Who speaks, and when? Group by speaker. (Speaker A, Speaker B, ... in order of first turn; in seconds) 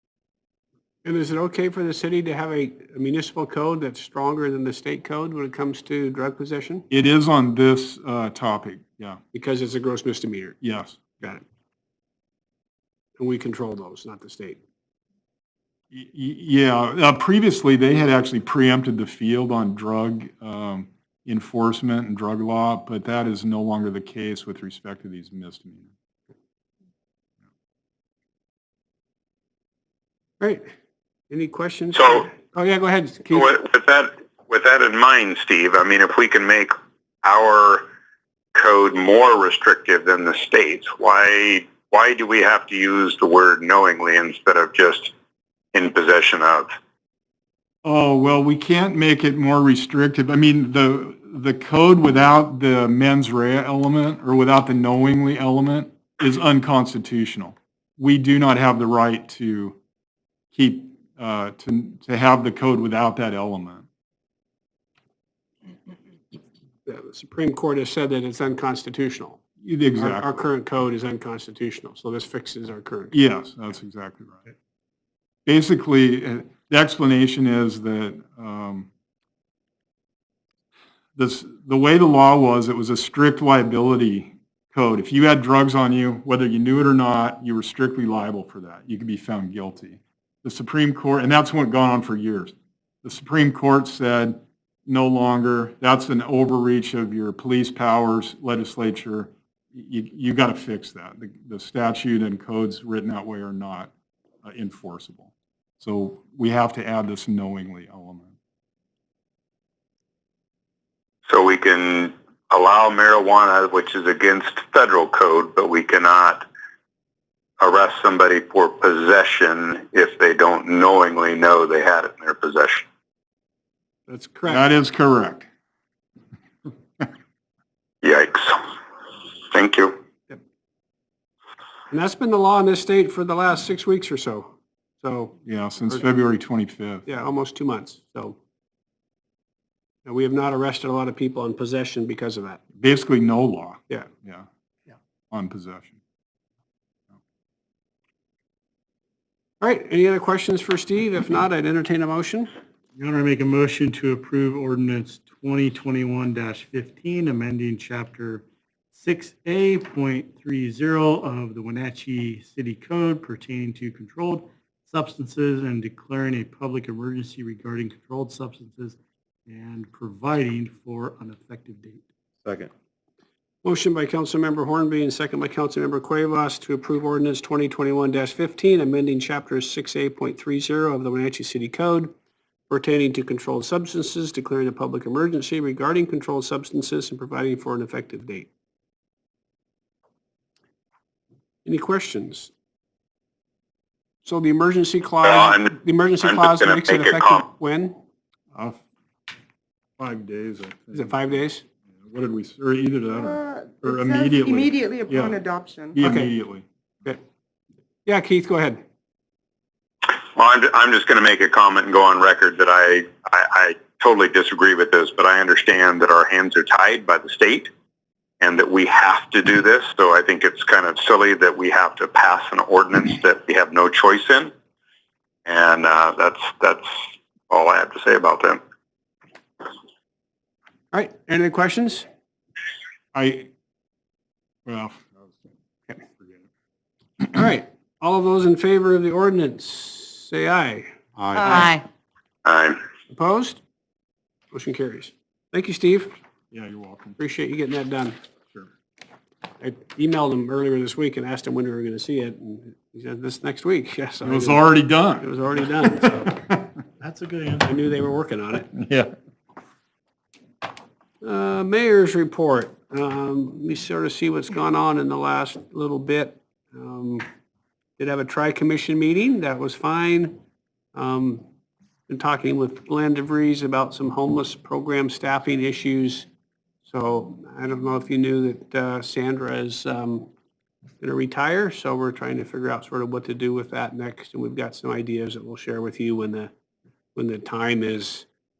Speaker A: 1.0-6.9, 9.3-10.6, 13.2-14.6, 30.4-30.6, 31.3-33.5, 66.9-69.4, 70.0-73.1, 124.1-124.6, 131.9-135.4, 137.1-138.4, 140.1-142.6, 149.6-152.5, 173.6-182.1, 182.7-188.5, 191.7-192.5, 194.2-198.0, 200.9-201.6, 206.0-206.3, 208.1-208.8, 230.9-232.1, 237.3-240.9, 243.1-243.6, 244.5-246.2, 247.2-248.2, 249.6-256.3, 257.6-258.7, 261.2-267.2, 268.0-270.4, 270.9-271.4, 272.1-276.3, 276.9-280.3, 281.0-286.5, 287.1-288.3
Speaker B: 6.9-9.2, 10.6-11.2, 15.9-25.9, 47.8-59.8, 60.5-63.8, 69.6-70.3, 73.1-74.4, 75.5-78.9, 81.2-103.9, 104.4-108.3, 124.5-125.5, 135.4-137.1, 142.8-144.5, 145.3-146.0, 198.5-198.8, 200.0-201.4, 201.9-205.4, 205.9-206.7, 233.1-233.5, 234.7-235.3, 241.2-241.7, 246.5-247.2, 254.2-255.3, 258.8-259.1
Speaker C: 31.9-32.3, 33.3-37.8, 38.5-45.1, 45.7-46.7, 111.3-116.5, 117.6-122.9, 128.0-128.6, 129.5-130.0, 195.2-197.4, 210.3-217.7, 218.4-224.5, 225.5-228.6, 242.4-242.8
Speaker D: 153.0-172.6, 257.0-257.8
Speaker E: 203.3-206.0